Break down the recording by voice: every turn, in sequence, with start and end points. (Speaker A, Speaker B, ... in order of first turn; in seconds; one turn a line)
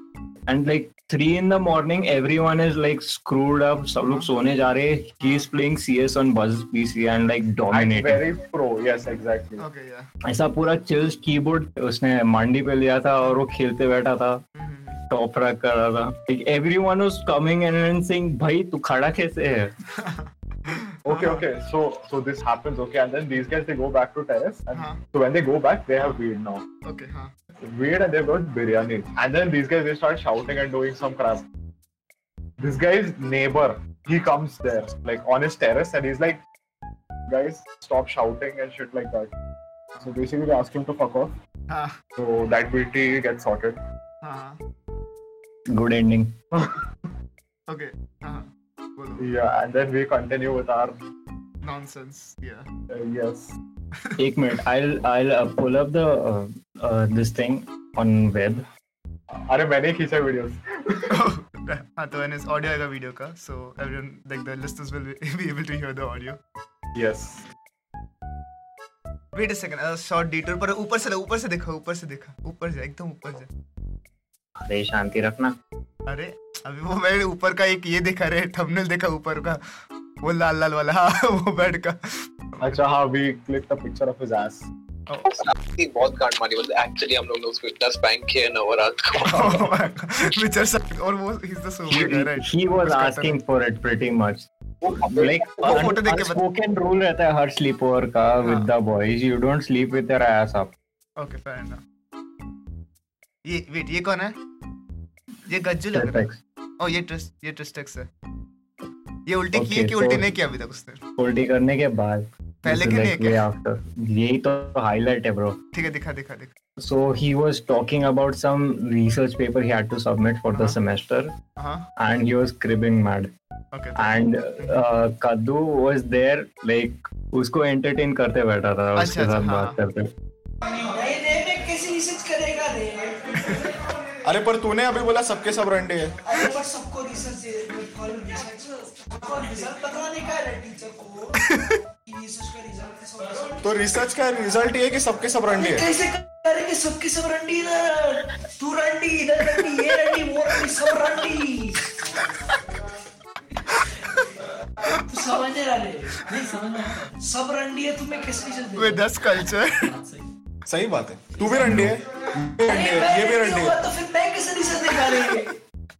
Speaker A: 0.5-8.2
Speaker B: 5.2-5.5
Speaker C: 7.7-9.6
Speaker B: 9.6-10.1
Speaker A: 10.2-14.4
Speaker B: 14.5-15.0
Speaker A: 15.1-19.7
Speaker B: 19.9-21.4
Speaker C: 21.0-26.6
Speaker B: 24.7-25.0
Speaker B: 26.8-27.3
Speaker C: 27.6-31.4
Speaker C: 32.6-36.4
Speaker C: 37.3-39.3
Speaker C: 40.0-41.3
Speaker B: 41.7-42.0
Speaker C: 42.1-43.8
Speaker B: 44.2-44.6
Speaker A: 45.7-46.4
Speaker B: 47.7-49.3
Speaker C: 49.2-50.9
Speaker B: 51.6-52.7
Speaker C: 52.9-53.5
Speaker A: 54.2-58.6
Speaker C: 59.3-61.3
Speaker B: 61.1-66.4
Speaker C: 66.9-67.4
Speaker B: 69.3-73.5
Speaker A: 74.6-75.5
Speaker B: 76.1-79.6
Speaker B: 80.2-82.8
Speaker C: 82.6-84.7
Speaker B: 85.1-85.4
Speaker D: 85.3-89.7
Speaker B: 89.2-93.4
Speaker A: 91.9-94.5
Speaker D: 94.8-95.3
Speaker A: 95.0-100.7
Speaker B: 95.6-96.4
Speaker B: 98.4-98.7
Speaker B: 101.2-101.8
Speaker B: 103.4-104.3
Speaker B: 105.5-106.3
Speaker A: 105.9-106.4
Speaker B: 106.8-108.1
Speaker B: 109.3-111.0
Speaker A: 109.5-110.3
Speaker A: 111.2-115.6
Speaker B: 112.6-113.4
Speaker B: 115.7-116.5
Speaker A: 116.8-121.3
Speaker B: 120.5-120.8
Speaker B: 121.6-121.9
Speaker A: 122.0-123.3
Speaker B: 123.7-124.8
Speaker A: 124.0-130.1
Speaker B: 128.9-129.8
Speaker E: 130.7-133.6
Speaker F: 134.2-136.1
Speaker E: 136.2-141.4
Speaker B: 141.4-141.8
Speaker E: 142.0-143.7
Speaker F: 143.6-145.9
Speaker E: 145.5-151.9
Speaker E: 154.9-159.1
Speaker B: 158.7-159.9
Speaker F: 160.7-163.8
Speaker A: 161.6-161.9
Speaker E: 162.6-165.5